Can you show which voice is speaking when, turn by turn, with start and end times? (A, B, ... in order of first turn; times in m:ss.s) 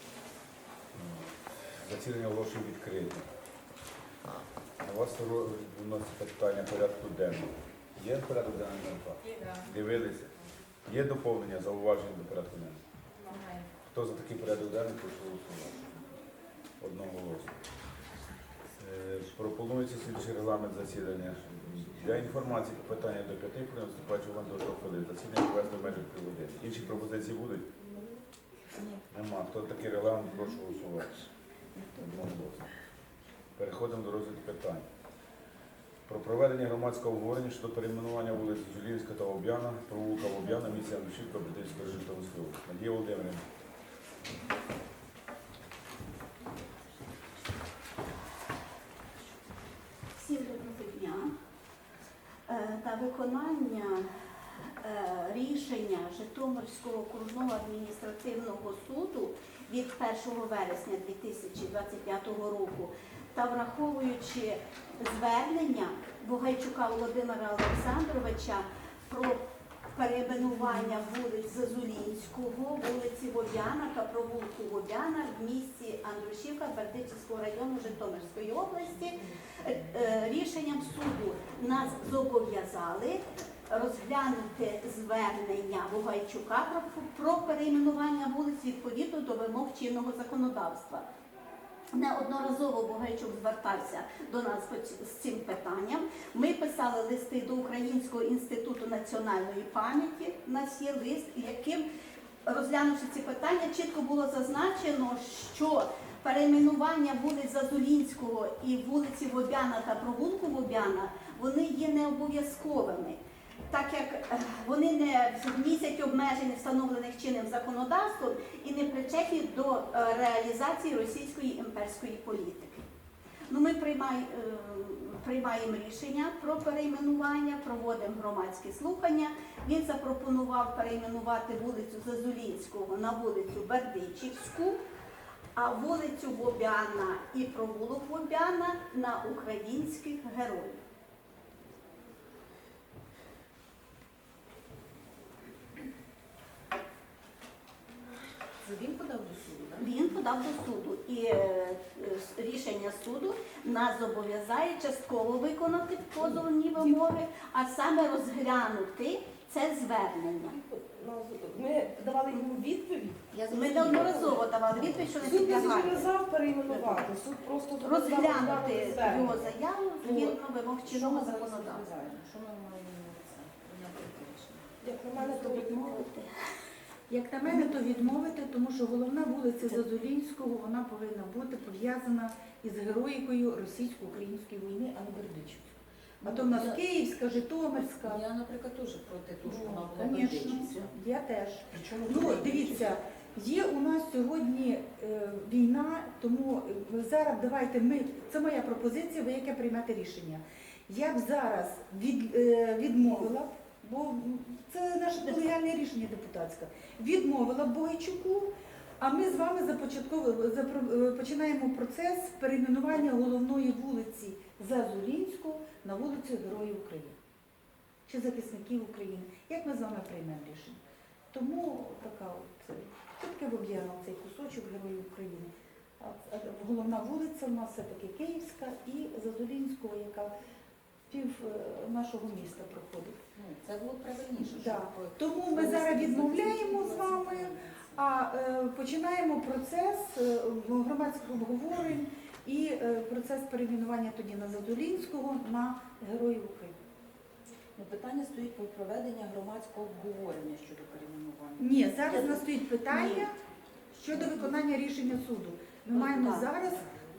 0:00.9-0:03.3 A
0:04.8-0:10.3 A
0:10.8-0:12.8 A
0:13.9-0:16.0 A
0:16.8-0:17.5 A
0:18.8-0:27.7 A
0:29.1-0:31.3 A
0:31.8-0:32.6 A
0:33.6-0:34.8 A
0:36.1-0:43.4 A
0:50.1-0:51.3 B
0:52.5-1:09.4 B
1:09.9-1:31.1 B
1:31.9-1:41.8 B
1:42.4-2:02.8 B
2:03.5-2:14.8 B
2:15.6-2:20.8 B
2:28.6-2:29.9 C
2:29.8-2:40.6 B
2:36.2-2:36.9 C
2:40.5-2:44.5 D
2:43.3-2:47.1 B
2:45.0-2:49.4 D
2:47.8-2:51.9 B
2:50.0-2:50.4 D
2:50.8-2:54.7 C
2:54.8-2:56.1 D
2:55.2-2:56.3 B
2:57.1-3:08.2 E
2:57.4-2:57.7 B
2:59.6-2:59.9 B
3:06.2-3:10.9 C
3:09.4-3:37.2 E
3:11.7-3:12.9 C
3:38.1-3:40.8 E
3:41.3-3:50.3 E
3:51.1-3:53.2 E
3:53.3-3:58.0 C
3:54.4-4:06.7 E
4:07.8-4:11.7 C
4:11.6-4:13.4 E
4:12.1-4:13.3 B
4:13.9-4:16.8 E
4:14.1-4:14.4 C
4:15.9-4:16.8 C
4:16.1-4:16.5 B